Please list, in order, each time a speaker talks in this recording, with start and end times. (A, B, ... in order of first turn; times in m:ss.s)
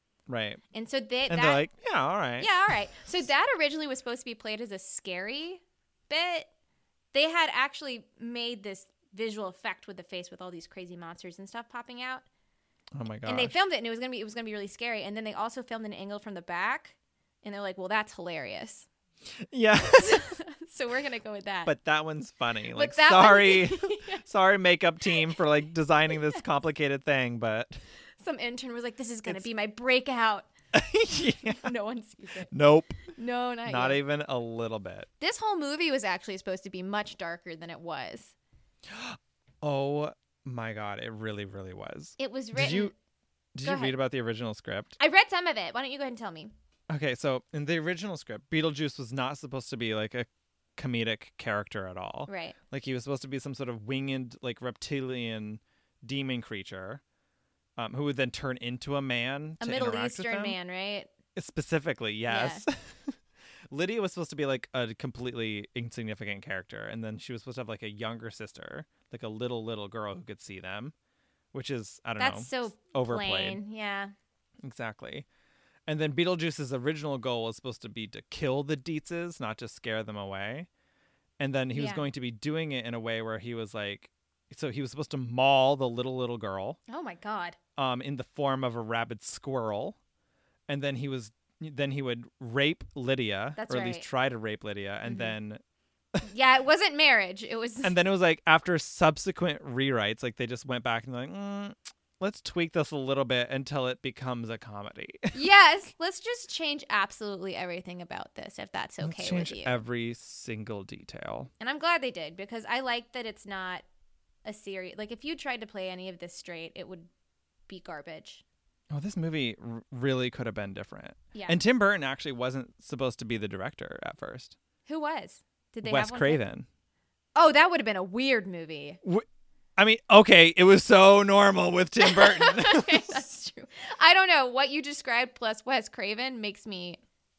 0:00.3-0:00.6 A
0:00.7-0:01.6 B
0:01.3-0:02.5 A
0:02.4-0:06.5 B
0:07.1-0:12.2 B
0:12.9-0:13.5 A
0:13.3-0:18.9 B
0:19.4-0:20.4 A
0:19.9-0:21.7 B
0:21.7-0:27.8 A
0:22.8-0:24.2 B
0:28.2-0:30.5 B
0:30.7-0:31.7 A
0:31.5-0:32.5 B
0:32.5-0:33.0 A
0:33.1-0:34.0 B
0:33.7-0:35.1 A
0:35.2-0:38.4 B
0:38.9-0:42.9 A
0:42.2-0:42.9 B
0:43.6-0:45.0 A
0:43.6-0:44.0 B
0:45.0-0:46.5 B
0:46.9-0:57.0 A
0:52.3-0:52.6 B
0:57.8-1:00.6 A
0:59.6-1:01.1 B
1:01.4-1:03.2 A
1:02.3-1:02.6 B
1:03.7-1:10.9 A
1:11.5-1:13.6 A
1:12.2-1:14.1 B
1:14.6-1:15.3 A
1:15.9-1:20.7 A
1:21.4-1:26.8 A
1:21.8-1:22.0 B
1:26.9-1:27.6 B
1:27.8-1:30.0 A
1:30.7-1:35.6 A
1:33.6-1:34.1 B
1:35.1-1:35.4 B
1:36.2-1:38.0 B
1:37.8-1:45.4 A
1:45.3-1:49.8 B
1:49.0-1:51.5 A
1:51.6-1:53.8 B
1:54.4-1:57.1 B
1:57.7-1:58.4 B
1:58.9-2:04.6 A
2:01.3-2:01.6 B
2:04.9-2:06.4 B
2:05.8-2:06.7 A
2:07.4-2:09.0 B
2:09.8-2:13.3 A
2:12.0-2:17.0 B